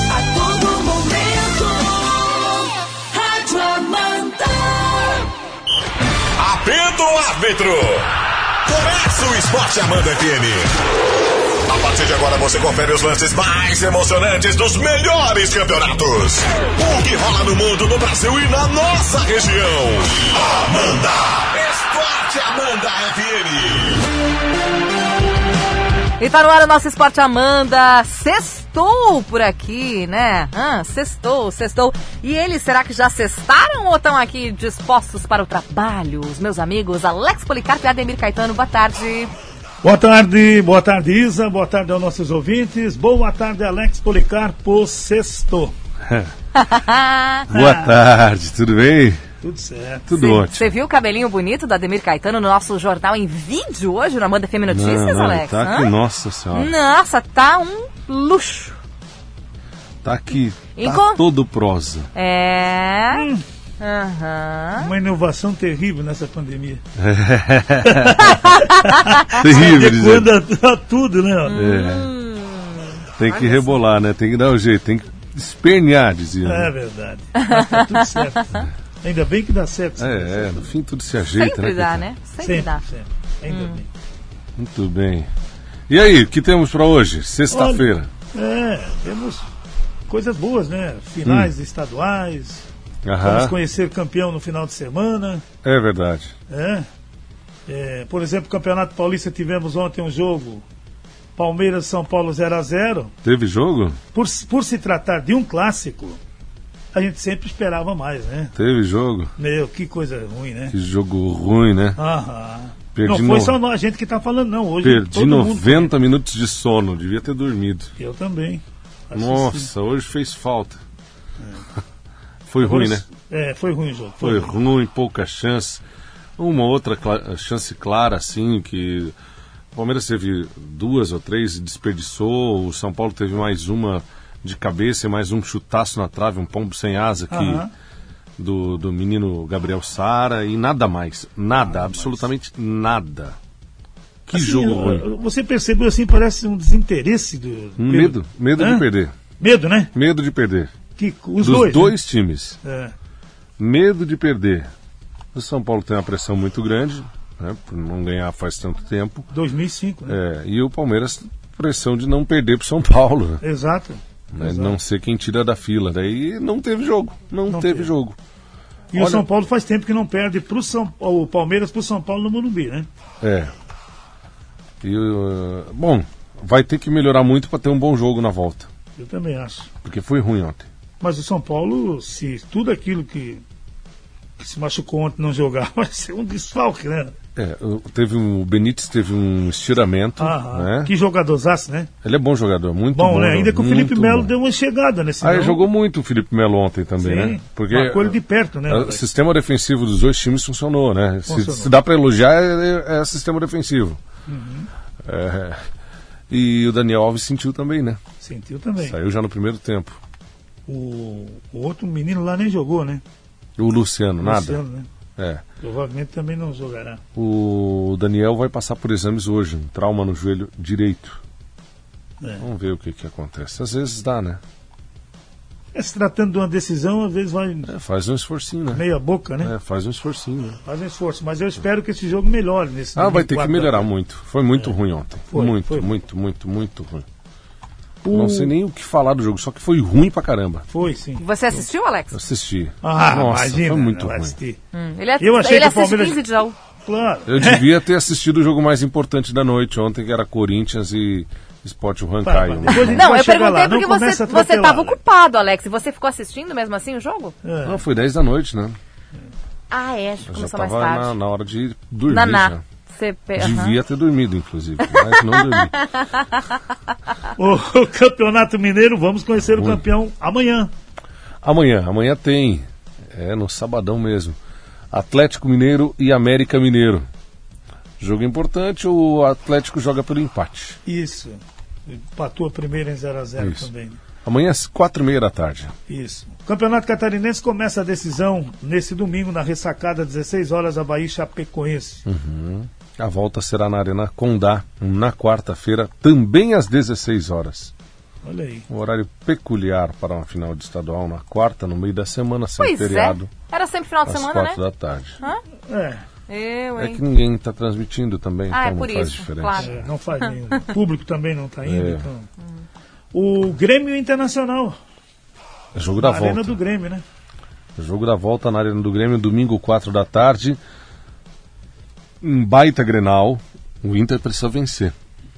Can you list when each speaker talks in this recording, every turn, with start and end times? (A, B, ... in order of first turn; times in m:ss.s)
0:00.1-0:01.9 A
0:03.1-0:04.8 A
0:06.4-0:08.1 B
0:08.6-0:10.7 B
0:11.6-0:24.0 B
0:26.2-0:39.3 C
0:39.8-0:45.7 D
0:46.0-0:46.3 E
0:46.5-0:47.5 C
0:47.5-0:49.2 E
0:49.4-0:50.1 D
0:50.1-0:50.7 E
0:50.2-0:55.9 C
0:54.7-0:56.7 E
0:56.5-0:58.8 C
1:00.0-1:02.1 E
1:00.8-1:01.2 C
1:02.1-1:03.3 C
1:03.1-1:03.4 D
1:03.8-1:04.9 C
1:04.8-1:06.8 D
1:07.0-1:08.4 E
1:07.8-1:11.6 D
1:08.4-1:09.0 C
1:09.3-1:10.3 E
1:11.5-1:13.0 C
1:11.5-1:12.1 E
1:13.2-1:16.7 E
1:16.4-1:20.7 D
1:17.4-1:18.4 C
1:20.0-1:22.0 E
1:21.4-1:22.8 C
1:22.4-1:23.9 D
1:23.5-1:23.8 C
1:24.6-1:25.3 E
1:25.9-1:28.1 E
1:27.5-1:29.4 D
1:30.1-1:32.7 D
1:31.2-1:31.5 E
1:33.0-1:33.6 E
1:33.2-1:35.4 D
1:35.6-1:36.3 E
1:36.5-1:36.9 D
1:37.7-1:40.6 D
1:41.4-1:43.1 D
1:43.2-1:44.0 E
1:44.1-1:46.2 D
1:46.9-1:48.5 D
1:48.6-1:49.3 E
1:49.4-1:50.8 D
1:50.7-1:52.0 E
1:52.0-1:55.9 D
1:52.9-1:53.6 E
1:54.8-1:57.9 E
1:58.0-1:59.7 D
1:59.1-2:00.8 E
2:02.5-2:03.0 E
2:02.6-2:04.5 D
2:04.2-2:05.8 E
2:06.4-2:09.2 E
2:09.7-2:17.7 E
2:17.3-2:17.7 D
2:18.4-2:23.4 E
2:21.7-2:22.3 D
2:24.3-2:25.0 E
2:24.3-2:28.8 D
2:27.8-2:29.2 E
2:29.4-2:29.9 D
2:29.9-2:30.7 E
2:31.0-2:32.0 D
2:31.4-2:32.6 E
2:32.6-2:32.9 D
2:33.6-2:34.7 E
2:35.3-2:39.3 E
2:39.3-2:40.2 D
2:40.1-2:43.4 E
2:43.4-2:44.8 D
2:44.3-2:48.2 E
2:47.5-2:47.9 D
2:48.9-2:52.9 D
2:48.9-2:49.2 E
2:53.2-2:53.5 E
2:54.8-2:58.7 E
2:59.0-2:59.7 D
2:59.8-3:00.7 E
3:01.0-3:03.4 D
3:04.4-3:07.1 D
3:07.4-3:10.9 E
3:10.2-3:11.9 D
3:12.0-3:14.3 E
3:12.9-3:15.6 D
3:15.2-3:24.0 E
3:17.0-3:19.0 D
3:21.2-3:21.7 D
3:24.3-3:24.7 D
3:25.0-3:25.6 E
3:26.3-3:28.0 E
3:28.2-3:29.0 D
3:28.8-3:30.0 E
3:30.7-3:33.0 D
3:33.6-3:34.6 E
3:34.2-3:34.9 D
3:35.2-3:35.4 E
3:35.6-3:37.0 D
3:37.2-3:41.2 E
3:42.4-3:44.4 E
3:45.8-3:47.7 D
3:47.7-3:48.8 E
3:48.7-3:49.5 D
3:49.4-3:50.6 E
3:50.6-3:53.9 D
3:53.0-3:57.1 E
3:55.3-3:56.0 D
3:58.0-3:58.5 D
3:58.1-4:00.7 E
4:00.7-4:01.2 D
4:01.2-4:02.2 C
4:02.1-4:04.4 E
4:02.8-4:04.6 D
4:04.7-4:06.5 C
4:05.2-4:06.2 D
4:06.8-4:07.7 D
4:07.2-4:13.1 E
4:12.2-4:15.0 D
4:12.7-4:17.3 C
4:17.4-4:17.8 D
4:17.6-4:18.8 E
4:19.7-4:21.1 C
4:20.2-4:22.6 E
4:22.1-4:23.8 C
4:23.4-4:25.8 E
4:24.8-4:26.4 C
4:27.4-4:30.7 D
4:29.6-4:29.8 E
4:31.4-4:34.4 E
4:34.9-4:37.1 E
4:38.0-4:40.8 E
4:40.9-4:44.0 D
4:43.4-4:43.7 E
4:44.2-4:45.8 E
4:45.9-4:52.0 D
4:52.1-4:57.7 E
4:58.2-4:58.7 D
4:58.7-5:03.3 E
5:02.6-5:04.6 C
5:04.1-5:05.2 E
5:05.7-5:06.0 D
5:06.3-5:07.0 C
5:06.8-5:09.9 E
5:08.5-5:09.7 C
5:09.6-5:12.3 D
5:11.6-5:12.1 E
5:13.1-5:14.8 D
5:15.7-5:16.6 E
5:16.0-5:17.0 D
5:17.8-5:20.6 E
5:22.2-5:24.9 E